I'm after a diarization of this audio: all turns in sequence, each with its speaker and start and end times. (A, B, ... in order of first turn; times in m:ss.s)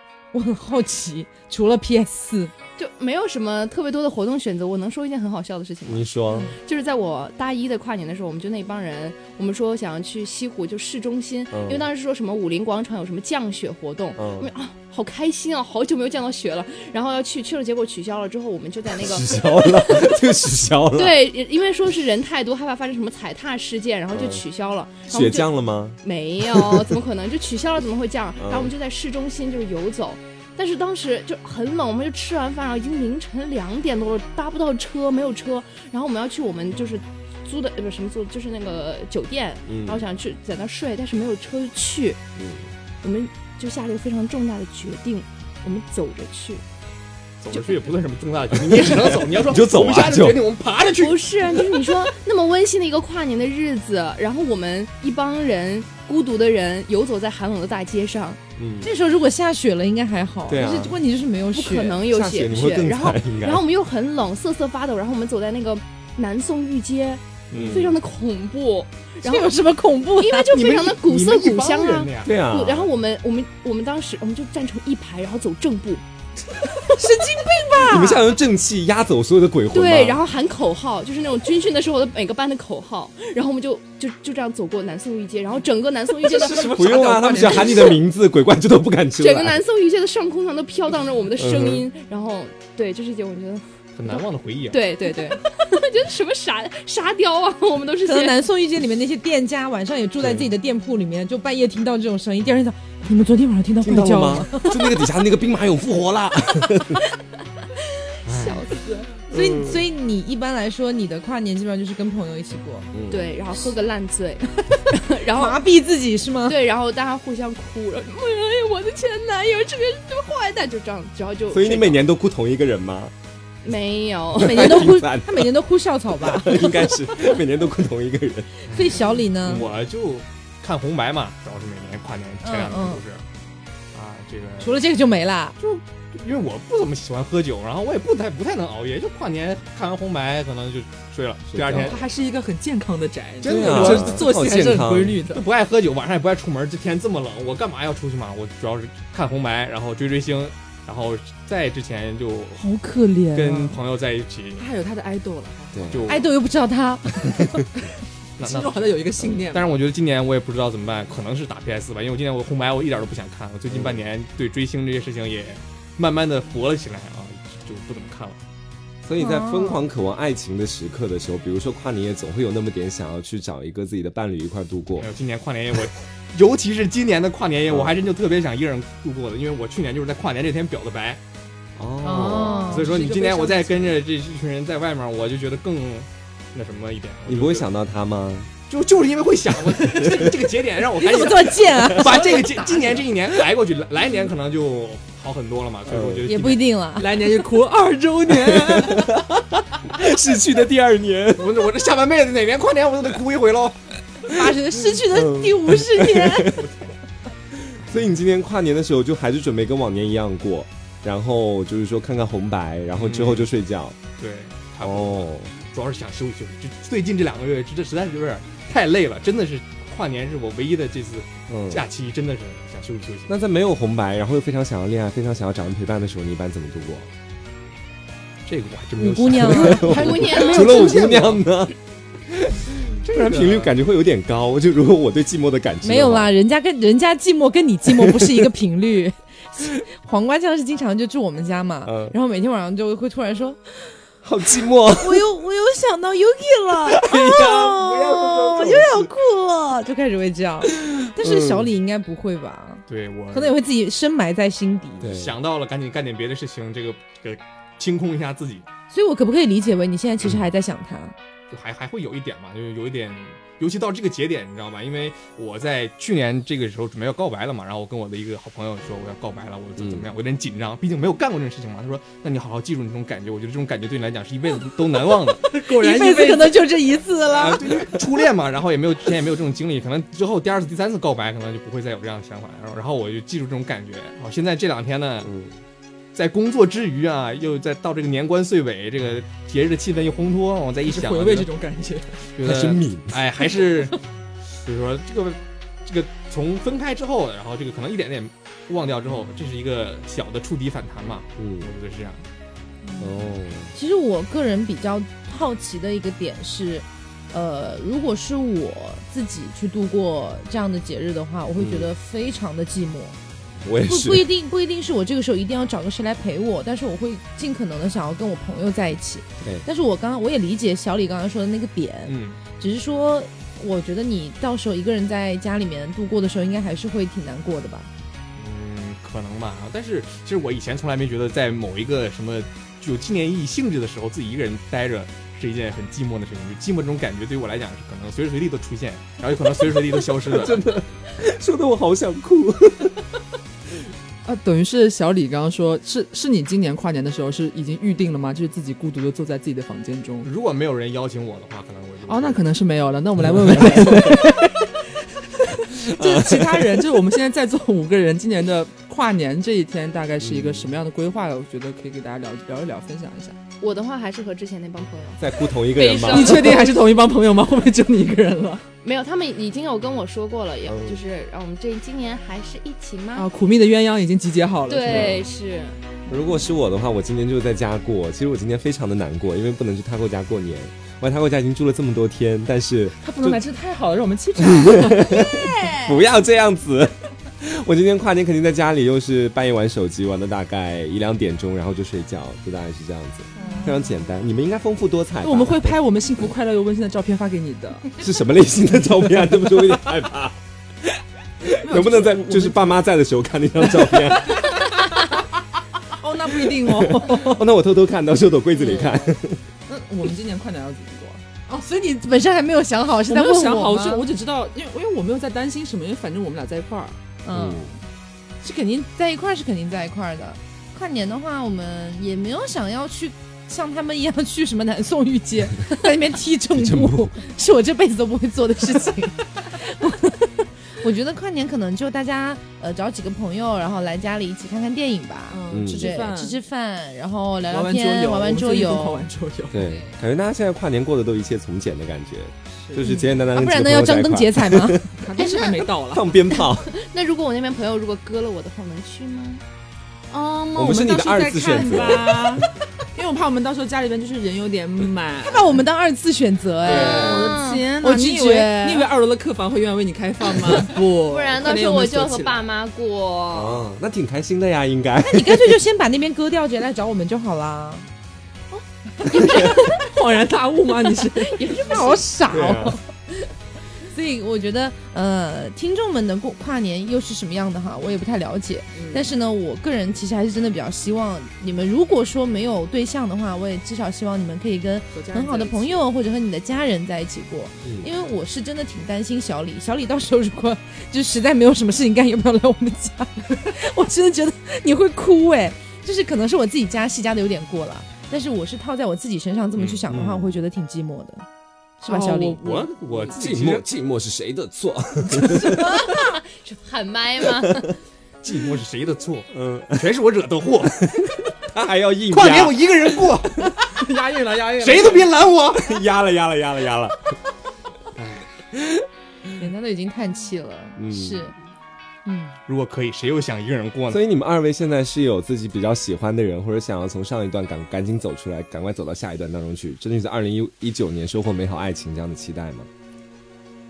0:00.3-0:02.5 A
0:02.8-0:20.3 B
0:05.8-0:06.5 C
0:11.5-0:11.9 C
0:14.2-0:14.5 C
0:19.0-0:21.2 C
0:20.9-0:25.5 B
0:24.1-0:24.4 C
0:25.1-0:26.0 C
0:26.0-0:42.2 B
0:26.5-0:27.0 C
0:28.4-0:28.7 C
0:39.7-0:40.0 C
0:42.4-0:42.7 C
0:43.0-0:46.6 B
0:47.4-0:51.8 D
0:47.5-0:47.8 B
0:48.7-0:50.4 C
0:50.8-0:58.4 B
0:58.6-0:58.9 C
0:58.8-1:02.0 A
1:00.5-1:01.0 C
1:01.5-1:09.5 B
1:02.1-1:03.6 C
1:07.5-1:07.8 D
1:07.5-1:08.0 C
1:09.2-1:10.6 A
1:10.2-1:16.0 B
1:10.5-1:12.4 D
1:12.2-1:12.9 C
1:16.9-1:18.3 A
1:17.8-1:20.2 C
1:19.7-1:28.0 B
1:26.2-1:29.6 C
1:29.2-1:38.4 B
1:31.4-1:31.9 C
1:33.9-1:34.8 D
1:38.0-1:44.9 A
1:40.2-1:40.5 C
1:43.8-1:47.0 C
1:48.2-1:49.1 B
1:49.3-1:49.8 C
1:49.3-1:52.9 A
1:52.9-1:53.4 C
1:53.1-1:55.6 B
1:55.3-1:56.6 A
1:56.4-2:02.0 B
2:01.5-2:03.1 C
2:03.6-2:04.8 B
2:04.3-2:05.5 C
2:04.4-2:06.9 A
2:06.2-2:08.5 C
2:08.6-2:09.7 A
2:08.7-2:13.2 D
2:12.4-2:13.0 A
2:13.9-2:14.7 D
2:14.6-2:15.6 A
2:15.6-2:22.0 D
2:21.5-2:21.9 C
2:21.7-2:25.4 E
2:23.4-2:32.6 D
2:23.5-2:25.2 C
2:32.6-2:33.8 A
2:33.3-2:34.7 D
2:34.6-2:36.0 E
2:35.7-2:36.1 C
2:35.9-2:36.2 D
2:36.1-2:37.7 A
2:38.4-2:48.4 D
2:38.4-2:39.7 E
2:43.7-2:44.0 C
2:49.0-2:55.1 C
2:49.2-2:49.8 A
2:55.0-3:01.2 D
2:57.7-2:57.9 C
3:01.8-3:02.6 C
3:02.0-3:02.8 A
3:02.4-3:04.0 E
3:02.6-3:07.7 D
3:07.3-3:08.5 C
3:08.7-3:16.6 D
3:11.0-3:13.0 A
3:15.9-3:16.3 C
3:16.3-3:17.3 A
3:17.0-3:19.2 E
3:18.3-3:21.6 C
3:21.3-3:23.8 D
3:24.3-3:26.6 A
3:25.1-3:26.5 C
3:26.5-3:26.9 D
3:27.8-3:34.0 C
3:33.0-3:33.5 D
3:34.2-3:43.3 D
3:34.8-3:35.5 C
3:41.5-3:41.8 C
3:43.3-3:47.1 C
3:48.4-3:51.4 D
3:49.0-3:49.9 A
3:49.3-3:51.7 C
3:49.7-3:51.3 B
3:52.3-3:56.3 C
3:53.0-3:53.7 D
3:55.8-4:03.8 A
3:57.9-3:58.4 C
4:01.8-4:02.1 C
4:04.2-4:05.2 C
4:04.9-4:15.1 A
4:06.9-4:08.8 C
4:07.4-4:09.1 D
4:11.2-4:11.7 C
4:12.9-4:13.6 D
4:15.0-4:15.3 C
4:15.0-4:18.6 D
4:18.9-4:21.1 A
4:21.5-4:35.5 D
4:29.8-4:30.0 C
4:35.5-4:36.6 E
4:35.6-4:37.7 A
4:37.3-4:45.3 D
4:45.2-4:45.5 C
4:46.1-4:51.5 D
4:50.8-4:52.3 E
4:52.4-5:02.2 D
4:52.4-4:53.2 C
5:01.4-5:01.7 C
5:02.8-5:13.2 A
5:03.0-5:03.7 C
5:11.6-5:11.9 C
5:13.6-5:14.2 C
5:13.8-5:27.9 A
5:22.1-5:22.4 D
5:28.4-5:40.6 D
5:40.3-5:43.0 C
5:44.2-5:50.3 E
5:50.2-5:52.4 D
5:52.0-5:54.5 E
5:53.4-5:54.4 C
5:55.3-6:03.4 E
5:55.8-5:56.8 C
6:00.2-6:00.7 C
6:03.6-6:06.7 B
6:05.2-6:06.6 C
6:06.1-6:08.7 E
6:08.8-6:13.3 B
6:10.6-6:11.0 C
6:13.1-6:15.2 E
6:14.7-6:15.8 B
6:14.9-6:15.2 C
6:16.1-6:23.4 C
6:23.0-6:25.9 E
6:24.4-6:35.8 C
6:33.4-6:34.1 E
6:35.2-6:38.0 E
6:38.0-6:44.5 C
6:41.6-6:42.8 E
6:43.7-6:47.4 E
6:46.6-6:49.4 C
6:48.7-6:49.1 E
6:49.7-6:51.2 E
6:51.5-6:54.0 A
6:53.1-6:57.0 E
6:57.2-6:57.8 A
6:57.3-6:57.7 C
6:58.4-7:19.9 A
7:06.5-7:07.1 C
7:15.3-7:16.4 E
7:15.5-7:15.9 C
7:17.5-7:19.7 E
7:19.5-7:24.9 C
7:22.6-7:23.0 E
7:22.8-7:24.8 A
7:25.0-7:26.1 E
7:25.2-7:25.6 B
7:25.9-7:26.7 C
7:26.4-7:29.4 B
7:30.1-7:35.6 E
7:30.5-7:32.5 C
7:35.2-7:37.2 A
7:36.6-7:37.4 C
7:36.7-7:42.4 E
7:37.0-7:37.8 B
7:37.8-7:38.7 A
7:40.5-7:43.6 B
7:43.3-7:45.6 C
7:45.1-7:47.9 A
7:48.5-7:49.8 B
7:49.3-7:51.5 E
7:51.2-7:52.0 B
7:51.6-7:52.8 A
7:52.3-7:52.8 C
7:53.9-8:21.2 A
7:58.7-7:59.1 E
8:04.9-8:05.9 E
8:19.6-8:20.0 D
8:19.9-8:20.4 C
8:21.8-8:22.4 A
8:21.9-8:23.1 E
8:22.4-8:23.6 D
8:23.1-8:25.8 C
8:25.4-8:27.8 B
8:27.4-8:27.7 C
8:28.2-8:30.8 D
8:29.3-8:29.8 C
8:30.8-8:32.6 C
8:32.1-8:33.5 D
8:33.7-8:35.1 E
8:34.6-8:35.8 D
8:35.6-8:37.0 C
8:38.0-8:38.2 D
8:39.4-8:41.4 A
8:40.8-8:41.2 C
8:42.0-8:42.3 A
8:42.5-8:44.0 D
8:43.9-8:52.7 C